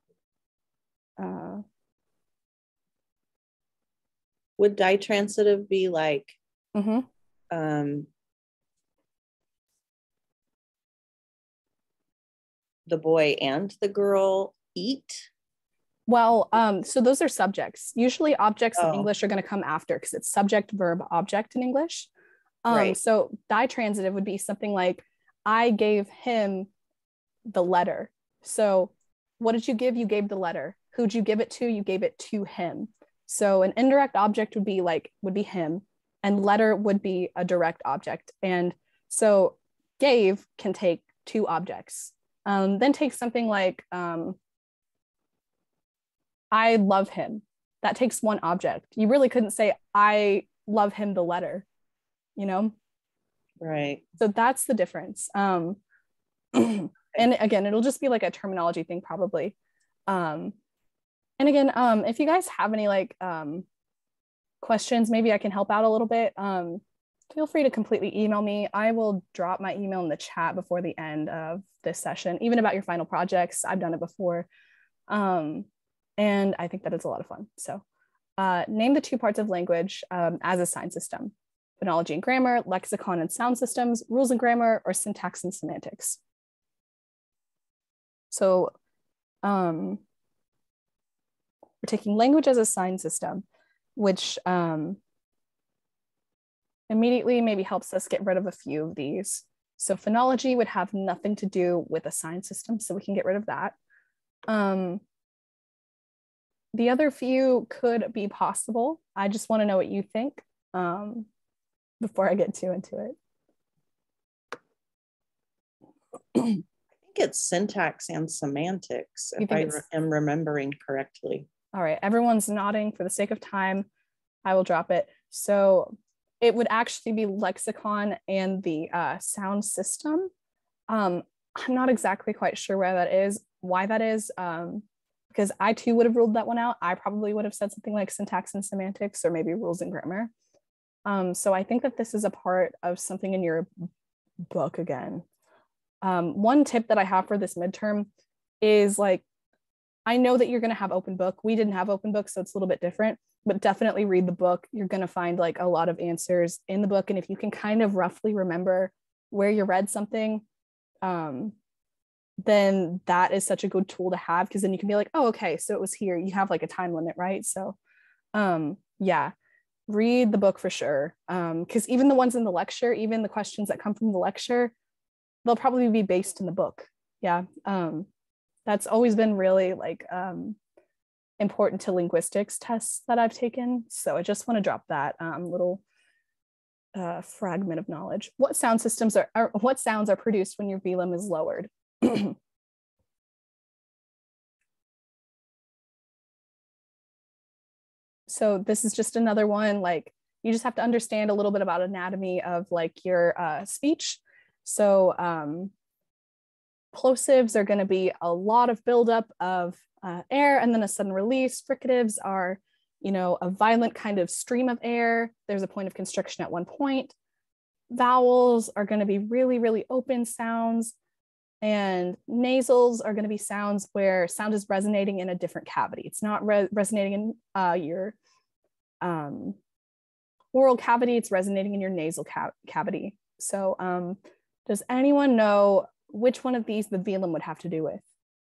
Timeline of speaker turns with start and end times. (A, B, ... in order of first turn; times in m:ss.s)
0:01.2-0:01.6 A
0:04.6-0:06.4 B
0:06.7-0:07.1 A
0:07.5-0:08.1 B
0:12.9-0:15.3 B
0:16.1-0:22.1 A
0:18.8-0:19.1 B
0:22.6-0:26.7 A
0:22.7-0:23.0 B
0:27.5-0:44.4 A
0:46.5-0:51.6 A
0:52.4-0:52.7 A
0:53.6-0:54.0 B
0:54.2-0:55.8 A
0:56.5-0:59.6 A
1:00.1-1:00.5 A
1:01.4-1:03.6 A
1:04.6-1:14.5 A
1:15.1-1:15.7 A
1:16.2-1:17.8 A
1:18.4-1:26.2 A
1:28.3-1:28.7 A
1:29.4-1:30.0 A
1:31.8-1:33.4 A
1:34.0-1:35.0 A
1:36.9-1:43.7 A
1:44.5-1:45.0 A
1:46.7-1:51.3 A
1:52.0-1:53.2 A
1:57.0-2:01.5 B
1:59.4-1:59.8 A
2:01.7-2:03.9 A
2:04.4-2:10.3 A
2:10.9-2:20.3 A
2:21.1-2:23.9 A
2:24.5-2:25.2 A
2:26.0-2:28.1 A
2:28.6-2:29.2 A
2:30.1-2:40.4 A
2:41.0-2:41.6 A
2:42.4-2:47.8 A
2:48.3-2:49.3 A
2:49.9-2:54.7 A
2:55.4-2:58.1 A
2:58.7-3:00.6 A
3:01.4-3:05.8 A
3:07.0-3:12.4 A
3:18.3-3:25.7 A
3:26.9-3:37.1 A
3:37.9-3:40.9 A
3:41.6-3:48.2 A
3:49.0-3:49.6 A
3:50.5-3:58.0 A